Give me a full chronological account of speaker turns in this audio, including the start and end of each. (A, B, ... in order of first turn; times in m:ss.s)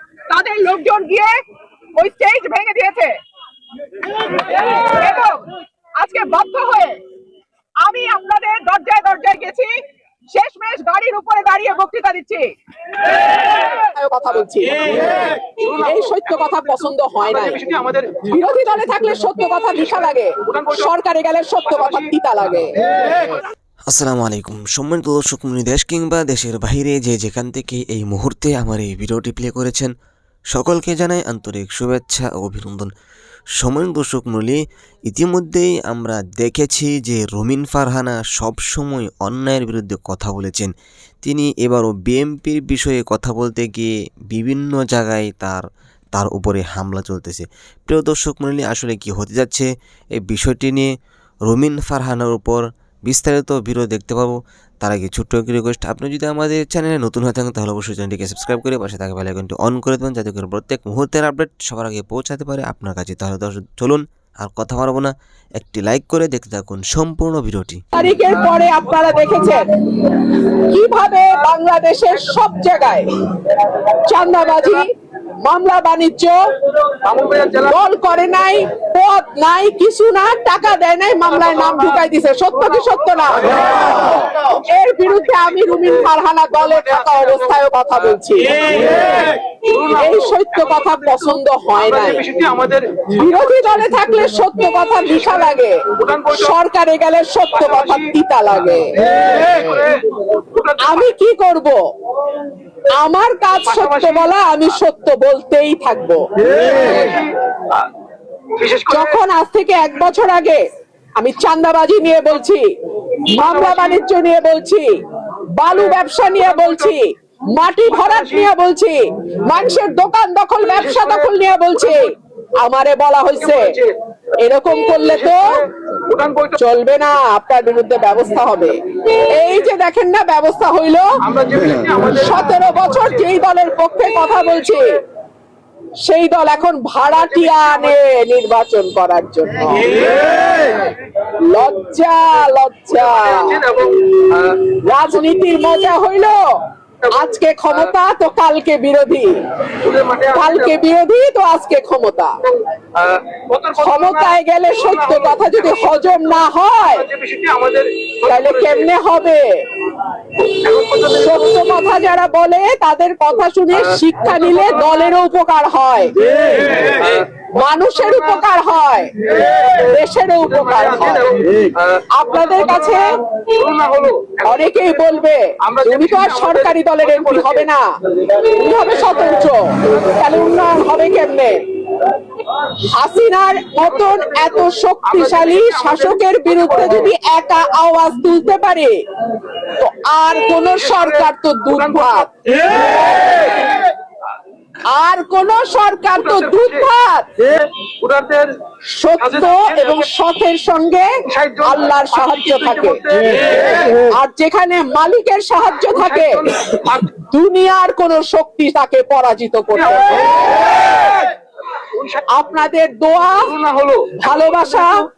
0:00.3-0:01.4 A
0:02.0-0:03.2 A
0:04.6-0:05.5 A
0:06.0-0:07.0 A
0:07.8-0:09.7 A
0:10.3-0:12.5 A
0:13.5-0:17.6 A
0:15.6-0:18.2 B
0:18.2-0:22.7 A
0:20.4-0:20.9 B
0:21.7-0:22.1 B
0:23.9-0:29.9 C
0:30.5-0:32.9 C
0:33.6-0:40.7 C
0:41.2-0:50.9 C
0:51.5-1:07.8 C
1:07.9-1:09.7 A
1:10.3-1:13.1 A
1:14.1-1:14.9 A
1:15.4-1:16.4 A
1:17.0-1:17.7 B
1:17.7-1:29.2 A
1:21.5-1:22.0 B
1:22.5-1:24.2 B
1:25.1-1:26.1 B
1:26.6-1:27.5 B
1:28.8-1:33.5 B
1:29.9-1:32.2 A
1:33.2-1:38.9 A
1:36.0-1:36.5 B
1:37.6-1:38.1 B
1:39.1-1:40.0 B
1:40.5-1:41.1 B
1:40.8-1:41.8 A
1:43.0-1:46.2 A
1:43.7-1:44.3 B
1:46.5-1:47.9 B
1:48.6-1:49.1 B
1:48.9-1:50.6 A
1:51.2-1:52.7 A
1:53.3-1:54.9 A
1:53.3-1:54.0 B
1:55.6-2:03.8 A
1:56.4-1:56.9 B
1:57.9-1:58.5 B
2:00.7-2:01.3 B
2:03.4-2:03.9 B
2:04.4-2:05.6 A
2:05.2-2:06.6 B
2:06.6-2:11.2 A
2:11.2-2:13.2 B
2:12.1-2:15.0 A
2:16.0-2:20.0 A
2:17.1-2:18.0 B
2:21.5-2:23.6 A
2:23.0-2:24.6 B
2:24.8-2:26.4 A
2:27.1-2:29.4 A
2:29.8-2:30.7 B
2:30.3-2:32.4 A
2:32.5-2:38.9 B
2:33.8-2:37.1 A
2:38.3-2:39.4 A
2:40.4-2:41.3 B
2:41.1-2:46.9 A
2:46.7-2:47.2 B
2:47.6-2:51.3 A
2:50.5-2:54.7 B
2:52.1-2:53.2 A
2:54.4-3:01.6 A
2:55.6-2:57.7 B
3:02.9-3:09.0 A
3:05.1-3:07.0 B
3:09.8-3:12.3 A
3:10.8-3:12.3 B
3:14.9-3:17.3 A
3:16.2-3:16.8 B
3:17.9-3:18.5 B
3:18.9-3:23.0 A
3:19.2-3:20.1 B
3:21.3-3:24.0 B
3:23.9-3:26.4 A
3:25.9-3:27.1 B
3:27.3-3:30.5 A
3:29.8-3:31.2 B
3:31.9-3:32.2 B
3:32.3-3:33.5 A
3:33.4-3:34.9 B
3:34.2-3:35.0 A